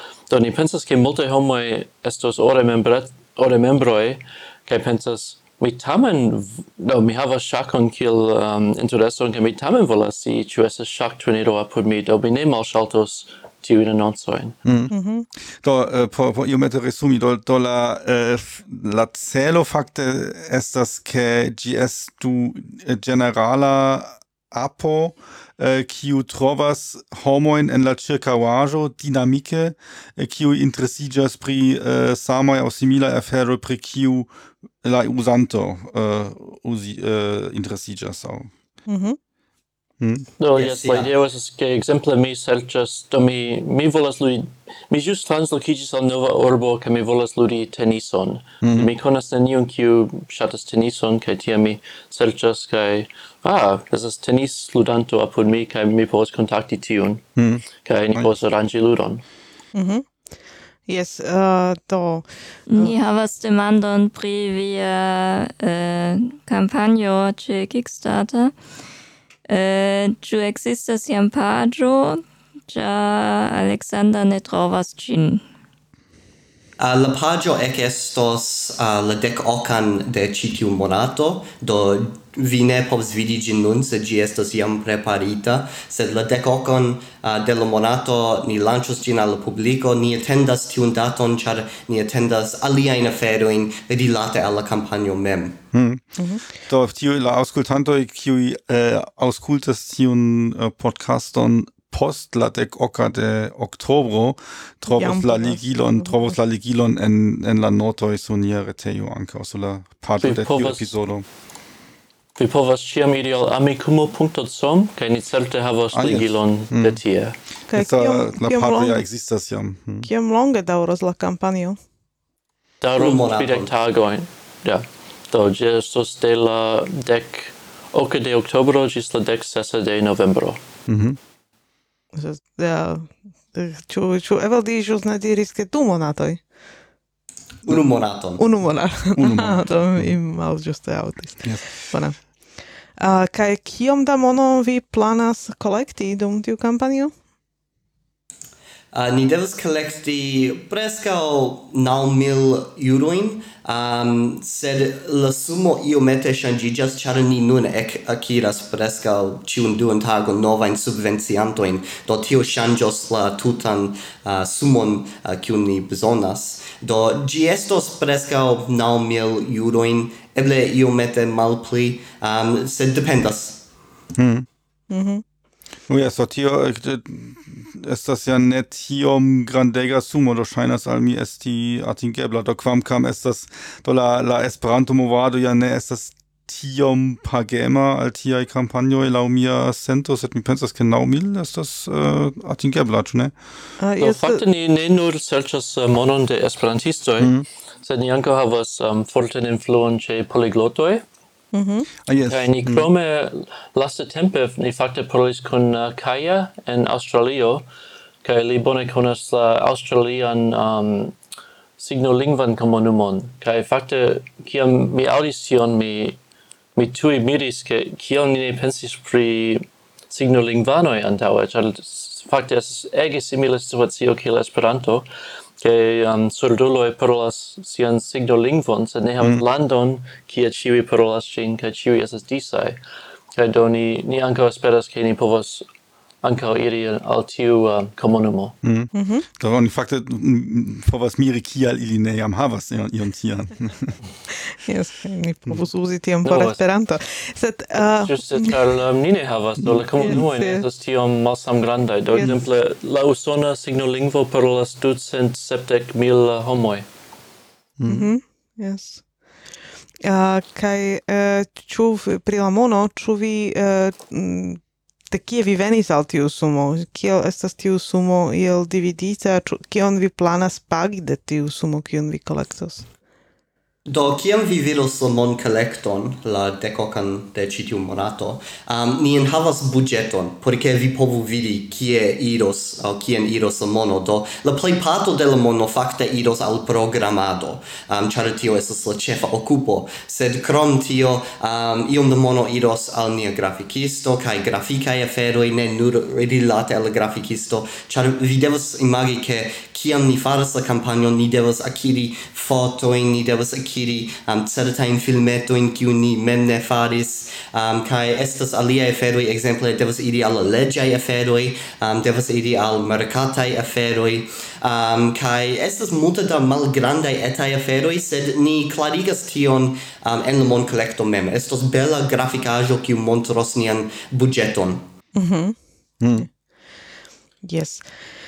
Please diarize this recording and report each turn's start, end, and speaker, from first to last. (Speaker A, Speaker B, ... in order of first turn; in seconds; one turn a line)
Speaker A: 0.3-14.6
Speaker B: 14.7-14.9
Speaker C: 14.9-15.3
Speaker B: 15.6-34.3
Speaker B: 34.8-38.5
Speaker C: 38.9-39.2
Speaker B: 40.0-40.3
Speaker A: 40.4-57.2
Speaker D: 40.6-41.1
Speaker B: 48.6-48.9
Speaker B: 57.4-58.3
Speaker A: 57.8-59.2
Speaker C: 59.7-60.1
Speaker C: 60.9-63.0
Speaker E: 62.7-68.5
Speaker E: 69.5-75.4
Speaker D: 76.8-95.6
Speaker B: 95.7-96.0
Speaker C: 96.2-96.5
Speaker B: 96.6-111.2
Speaker C: 104.9-106.2
Speaker A: 110.2-110.9
Speaker A: 112.4-117.4
Speaker B: 115.9-117.0
Speaker C: 117.7-119.0
Speaker B: 117.8-120.1
Speaker C: 120.0-121.8
Speaker A: 122.8-130.6
Speaker D: 123.0-123.7
Speaker B: 130.9-131.2
Speaker C: 132.1-136.4
Speaker D: 137.7-138.4
Speaker C: 138.4-142.2
Speaker B: 139.2-140.1
Speaker B: 141.4-141.7
Speaker C: 143.0-147.1
Speaker D: 148.9-173.7
Speaker B: 174.2-174.5
Speaker C: 174.9-175.2
Speaker B: 175.9-193.3
Speaker C: 193.8-194.4
Speaker A: 194.0-201.0
Speaker B: 197.2-197.5
Speaker C: 201.5-201.9
Speaker B: 202.1-202.9
Speaker A: 202.3-207.7
Speaker A: 208.2-211.2
Speaker A: 211.8-216.2
Speaker A: 216.8-225.1
Speaker A: 225.6-232.8
Speaker A: 233.3-235.7
Speaker A: 236.2-238.6
Speaker B: 238.6-244.0
Speaker C: 238.9-239.2
Speaker C: 244.6-248.6
Speaker A: 246.2-246.6
Speaker A: 248.0-256.9
Speaker B: 249.6-250.2
Speaker C: 250.0-250.7
Speaker B: 257.8-258.1
Speaker C: 257.9-259.0
Speaker C: 260.0-272.9
Speaker D: 273.9-324.8
Speaker C: 325.1-325.6
Speaker B: 326.0-326.3
Speaker C: 327.4-327.9